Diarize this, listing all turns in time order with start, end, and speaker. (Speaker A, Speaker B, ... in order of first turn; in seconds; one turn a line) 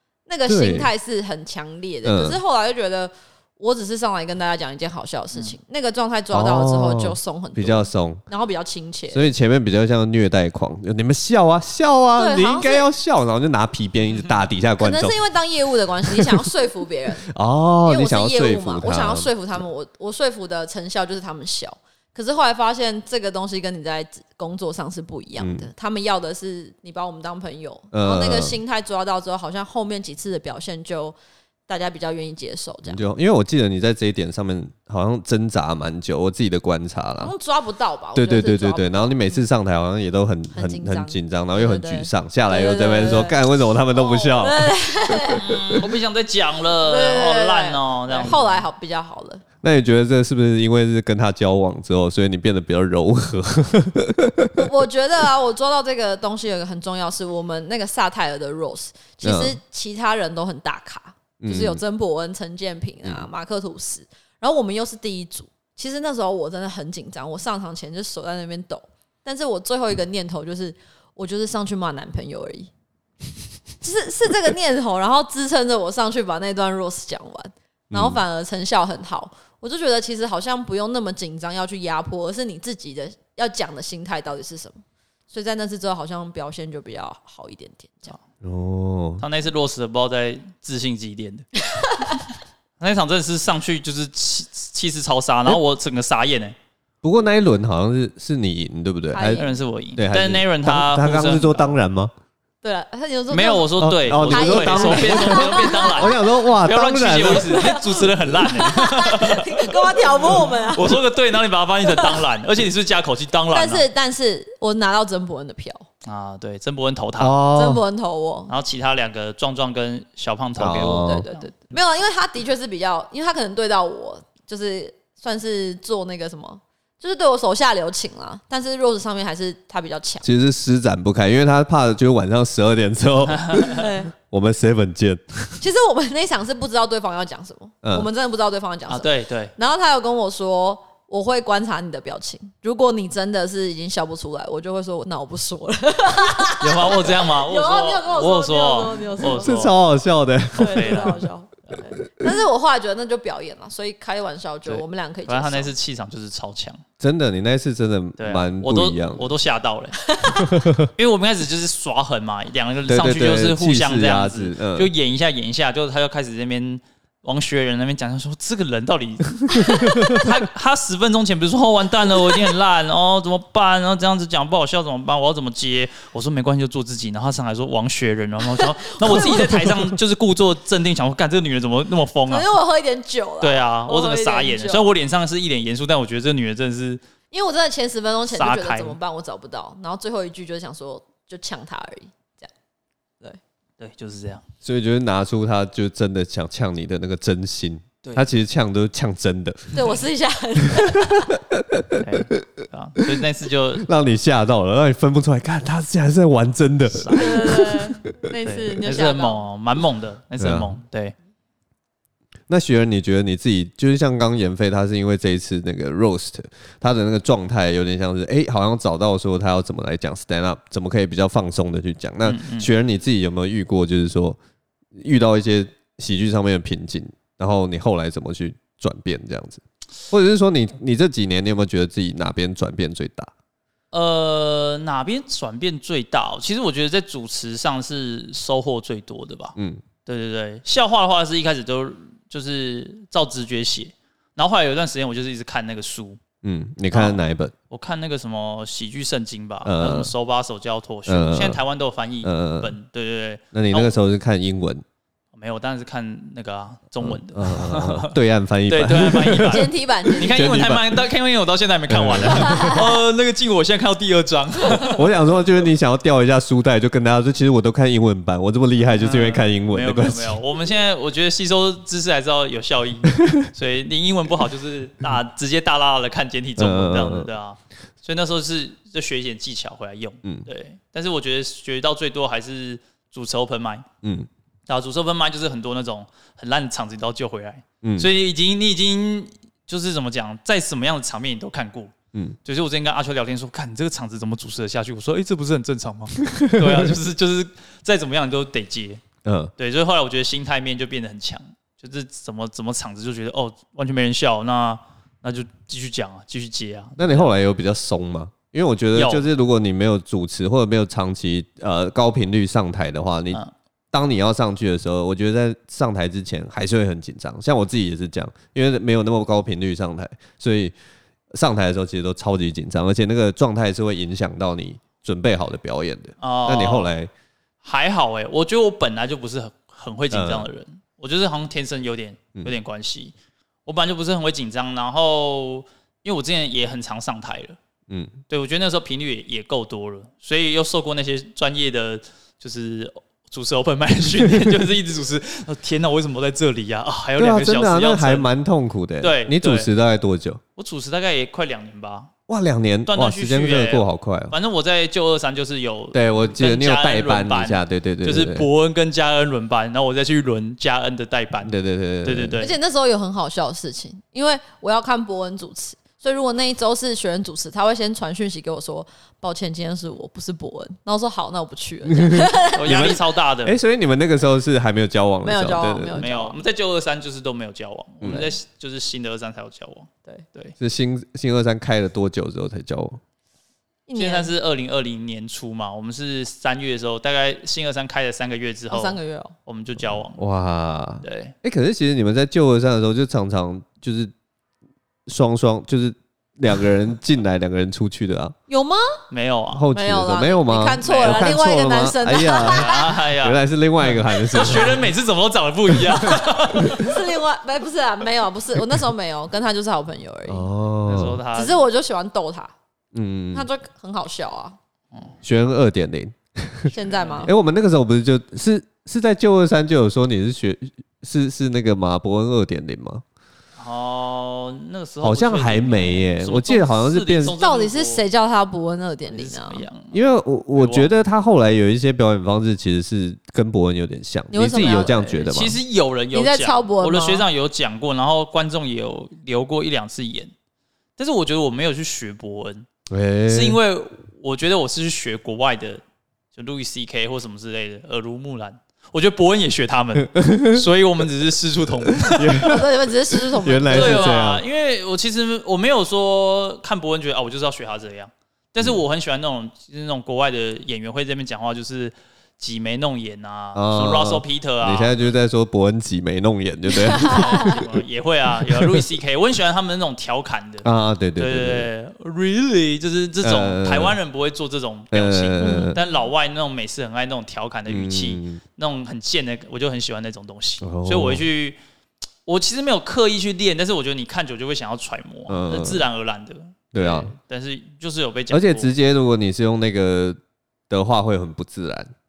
Speaker A: 0.3-9.3
Speaker B: 0.5-0.9
Speaker B: 2.0-2.4
Speaker B: 6.3-8.2
Speaker B: 9.1-15.2
Speaker A: 12.2-12.9
Speaker A: 14.8-17.2
Speaker B: 16.0-16.3
Speaker B: 17.3-19.3
Speaker A: 17.8-31.1
Speaker B: 25.4-25.7
Speaker B: 27.9-28.6
Speaker A: 31.7-33.0
Speaker B: 32.9-37.3
Speaker A: 37.2-39.4
Speaker B: 38.1-45.4
Speaker A: 40.5-45.8
Speaker C: 45.4-48.6
Speaker A: 46.8-49.4
Speaker B: 49.6-54.7
Speaker A: 54.5-72.7
Speaker B: 59.2-59.6
Speaker B: 61.4-61.8
Speaker A: 73.8-88.2
Speaker B: 77.9-78.2
Speaker B: 88.4-89.2
Speaker C: 89.2-91.5
Speaker A: 91.8-92.2
Speaker C: 92.8-96.5
Speaker B: 97.0-99.4
Speaker A: 99.1-99.6
Speaker C: 99.3-101.8
Speaker B: 100.0-102.1
Speaker A: 102.6-106.3
Speaker C: 103.3-113.8
Speaker B: 103.8-107.6
Speaker A: 107.2-111.0
Speaker A: 111.8-112.2
Speaker A: 113.5-115.8
Speaker C: 116.0-117.4
Speaker B: 117.2-117.8
Speaker A: 117.5-118.5
Speaker C: 118.5-121.5
Speaker B: 120.6-121.2
Speaker A: 120.6-130.2
Speaker B: 130.2-135.6
Speaker A: 133.8-134.1
Speaker A: 135.6-149.6
Speaker B: 137.8-138.1
Speaker C: 138.9-139.5
Speaker C: 146.6-149.7
Speaker B: 149.2-151.2
Speaker A: 150.5-155.7
Speaker C: 150.6-151.2
Speaker C: 154.7-156.8
Speaker B: 157.0-159.3
Speaker C: 158.2-160.1
Speaker A: 160.1-160.5
Speaker B: 160.4-160.9
Speaker C: 160.9-182.5
Speaker B: 162.9-164.9
Speaker B: 169.6-170.3
Speaker A: 178.6-179.6
Speaker A: 182.3-184.9
Speaker C: 183.4-187.0
Speaker A: 187.3-192.5
Speaker C: 188.3-189.0
Speaker C: 193.8-194.4
Speaker B: 194.6-199.8
Speaker A: 199.7-201.4
Speaker B: 200.9-202.1
Speaker C: 202.0-203.8
Speaker B: 203.8-208.1
Speaker C: 206.9-207.8
Speaker A: 207.1-209.4
Speaker C: 208.4-211.1
Speaker B: 210.4-210.7
Speaker B: 212.5-224.4
Speaker C: 222.2-222.7
Speaker B: 224.9-233.3
Speaker C: 233.9-239.5
Speaker B: 239.6-239.8
Speaker C: 240.1-246.2
Speaker B: 246.4-247.5
Speaker C: 246.9-253.9
Speaker B: 249.6-250.1
Speaker B: 251.1-251.6
Speaker B: 252.2-252.7
Speaker B: 253.5-254.8
Speaker C: 255.3-258.1
Speaker B: 257.0-259.6
Speaker C: 258.7-265.1
Speaker A: 259.3-260.5
Speaker B: 260.2-261.0
Speaker B: 261.9-262.9
Speaker A: 262.3-262.9
Speaker B: 264.8-270.4
Speaker C: 268.9-283.9
Speaker B: 273.2-273.5
Speaker B: 276.6-277.3
Speaker B: 284.0-284.3
Speaker C: 284.7-291.9
Speaker B: 287.8-288.1
Speaker C: 292.4-299.0
Speaker B: 296.3-296.9
Speaker B: 299.2-299.5
Speaker C: 299.6-307.3
Speaker B: 307.0-320.7
Speaker C: 308.9-309.2
Speaker B: 321.3-327.1
Speaker C: 326.2-326.9
Speaker C: 327.6-333.1
Speaker B: 330.1-330.5
Speaker C: 333.6-337.6
Speaker C: 338.3-348.3
Speaker B: 347.2-350.4
Speaker C: 349.0-349.7
Speaker C: 350.6-352.1
Speaker B: 352.3-354.3
Speaker C: 352.9-362.6
Speaker B: 355.9-358.5
Speaker B: 361.4-362.4
Speaker A: 362.4-372.9
Speaker B: 371.9-376.0
Speaker C: 372.5-373.6
Speaker A: 375.2-376.4
Speaker C: 375.9-380.5
Speaker B: 378.0-378.3
Speaker B: 380.6-383.0
Speaker A: 383.9-384.3
Speaker C: 383.9-390.2
Speaker A: 388.7-389.3
Speaker B: 390.1-394.1
Speaker C: 391.0-391.3
Speaker B: 395.1-398.4
Speaker A: 398.5-399.0
Speaker C: 399.1-399.6
Speaker B: 399.5-404.9
Speaker A: 399.7-403.0
Speaker C: 400.8-401.3
Speaker C: 402.4-406.9
Speaker B: 405.7-406.9
Speaker A: 406.6-410.5
Speaker B: 410.3-411.2
Speaker C: 410.9-411.6
Speaker A: 411.3-412.5
Speaker B: 412.9-413.5
Speaker A: 413.3-414.6
Speaker B: 415.2-416.7
Speaker A: 416.7-417.3
Speaker C: 416.9-417.3
Speaker B: 417.2-423.0
Speaker C: 423.6-428.0
Speaker B: 425.0-427.4
Speaker A: 427.4-429.6
Speaker C: 429.1-430.0
Speaker B: 429.9-435.6
Speaker C: 430.5-430.9
Speaker A: 434.3-435.4
Speaker C: 435.3-440.3
Speaker A: 436.1-437.2
Speaker C: 441.0-442.7
Speaker B: 442.9-443.6
Speaker C: 443.3-445.8
Speaker C: 446.3-452.6
Speaker B: 450.1-450.6
Speaker B: 451.9-454.4
Speaker A: 452.4-454.1
Speaker C: 453.7-465.1
Speaker B: 463.5-467.6
Speaker A: 466.7-467.6
Speaker C: 466.9-481.6
Speaker B: 468.4-468.8
Speaker B: 470.6-471.7
Speaker B: 473.2-474.0
Speaker B: 474.9-475.8
Speaker A: 475.4-475.8
Speaker B: 477.7-478.4
Speaker B: 480.6-481.2
Speaker C: 482.2-488.7
Speaker B: 485.3-485.8
Speaker B: 486.7-487.1
Speaker B: 488.3-490.2
Speaker B: 490.7-491.9